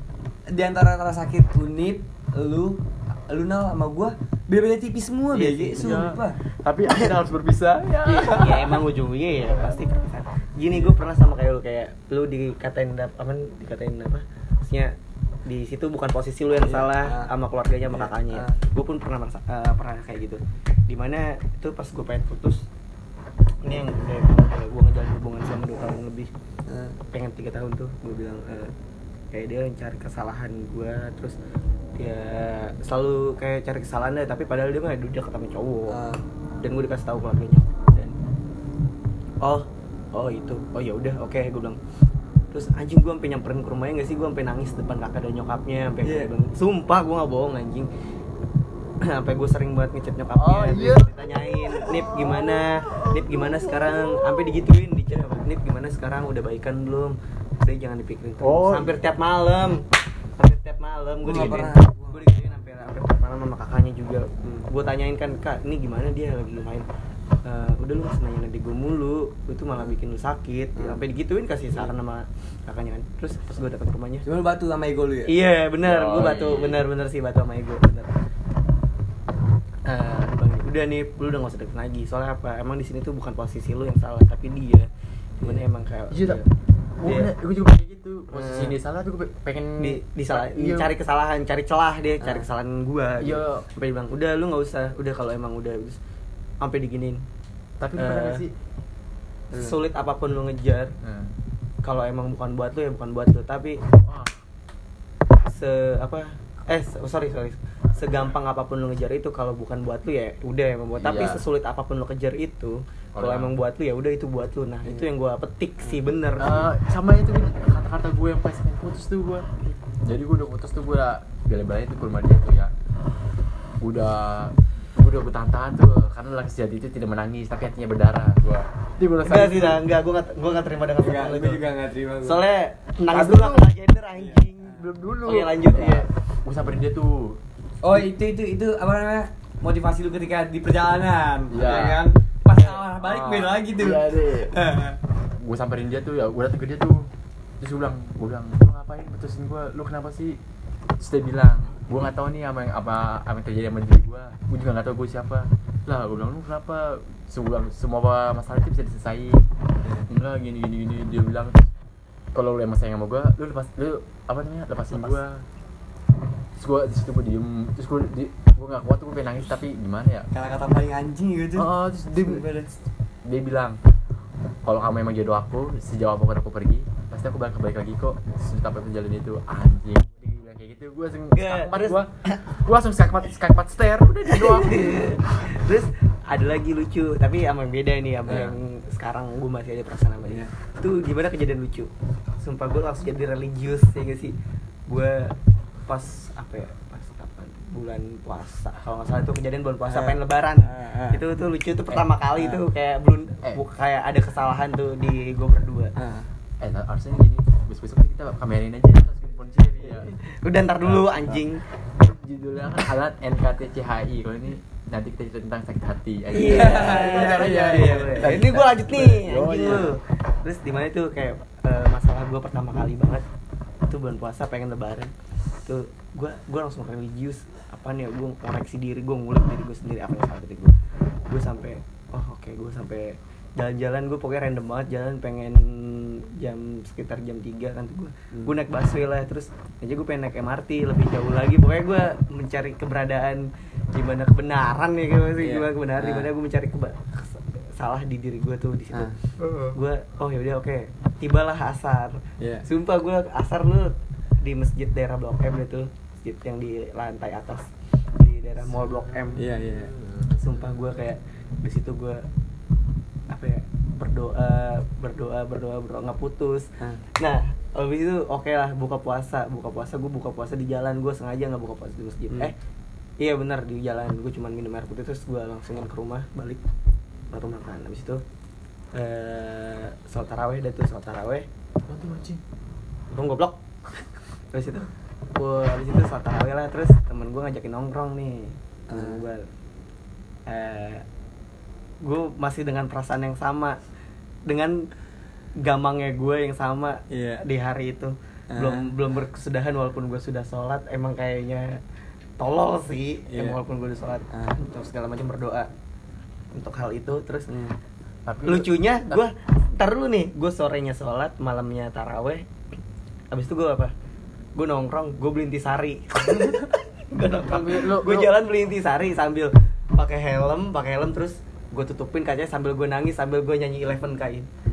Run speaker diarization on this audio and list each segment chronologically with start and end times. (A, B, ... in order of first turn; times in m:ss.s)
0:00.5-0:06.4 A
0:05.3-0:08.9 B
0:05.4-0:06.0 C
0:08.2-0:14.9 C
0:15.4-0:22.6 C
0:16.6-0:17.3 A
0:17.9-0:18.6 A
0:23.6-0:26.3 C
0:26.7-0:27.0 A
0:27.1-0:28.7 C
0:29.3-0:31.4 C
0:32.0-0:36.0 C
0:35.9-0:36.2 A
0:36.6-0:38.2 C
0:39.4-0:41.8 C
0:42.5-0:47.9 C
0:46.0-0:46.3 A
0:49.0-0:59.8 C
0:50.4-0:54.5 B
0:58.4-0:59.0 B
1:00.4-1:06.8 C
1:01.2-1:02.2 A
1:01.3-1:01.7 B
1:07.4-1:14.2 C
1:10.8-1:11.0 A
1:14.2-1:15.3 A
1:15.3-1:18.1 C
1:15.8-1:16.8 B
1:19.8-1:24.9 C
1:25.4-1:26.4 C
1:25.4-1:26.5 B
1:27.0-1:30.9 B
1:27.0-1:27.3 C
1:28.3-1:28.7 C
1:29.8-1:36.0 C
1:33.2-1:33.6 B
1:36.6-1:37.2 C
1:37.8-1:38.5 B
1:38.0-1:38.4 C
1:39.5-1:40.9 C
1:41.0-1:41.3 B
1:41.8-1:43.8 C
1:44.0-1:44.3 B
1:45.4-1:56.7 C
1:51.0-1:51.4 B
1:53.1-1:53.5 B
1:56.4-1:59.5 B
2:00.0-2:02.7 B
2:03.8-2:09.8 B
2:09.2-2:11.6 C
2:11.0-2:12.4 A
2:12.2-2:16.1 C
2:13.1-2:13.7 B
2:14.1-2:14.4 A
2:14.7-2:17.4 B
2:17.8-2:25.0 A
2:21.5-2:24.5 B
2:25.2-2:27.1 B
2:27.6-2:30.4 B
2:31.0-2:39.4 B
2:39.8-2:40.1 A
2:40.1-2:41.7 B
2:42.3-2:45.4 B
2:46.6-2:50.3 B
2:50.3-2:52.8 A
2:51.6-2:52.5 B
2:53.2-2:53.8 B
2:54.6-3:05.1 B
3:01.3-3:02.4 C
3:04.3-3:11.9 C
3:08.2-3:08.6 B
3:12.4-3:14.3 C
3:14.9-3:25.9 C
3:19.9-3:21.2 A
3:22.4-3:22.6 A
3:26.0-3:26.3 A
3:26.6-3:30.1 B
3:29.8-3:31.6 C
3:30.8-3:31.4 B
3:32.0-3:39.9 B
3:36.3-3:43.2 C
3:36.4-3:38.2 A
3:43.9-3:45.1 C
3:45.6-4:19.4 C
4:05.4-4:06.3 A
4:12.4-4:12.6 A
4:18.8-4:20.6 B
4:19.4-4:19.9 A
4:20.4-4:22.3 C
4:23.3-4:32.5 C
4:33.2-4:36.6 C
4:37.3-4:38.2 C
4:38.9-4:41.5 C
4:41.9-4:42.4 B
4:43.1-4:49.4 C
4:48.9-4:49.2 A
4:50.5-4:51.0 C
4:52.0-4:53.8 C
4:54.5-4:54.9 C
4:55.6-5:01.8 C
4:57.1-4:57.4 A
4:58.5-4:58.9 A
5:02.4-5:05.7 C
5:03.3-5:03.6 A
5:04.3-5:04.6 A
5:06.5-5:07.5 C
5:07.5-5:07.8 A
5:08.2-5:09.2 B
5:08.4-5:12.4 C
5:13.3-5:13.9 C
5:14.6-5:24.5 C
5:17.4-5:18.3 B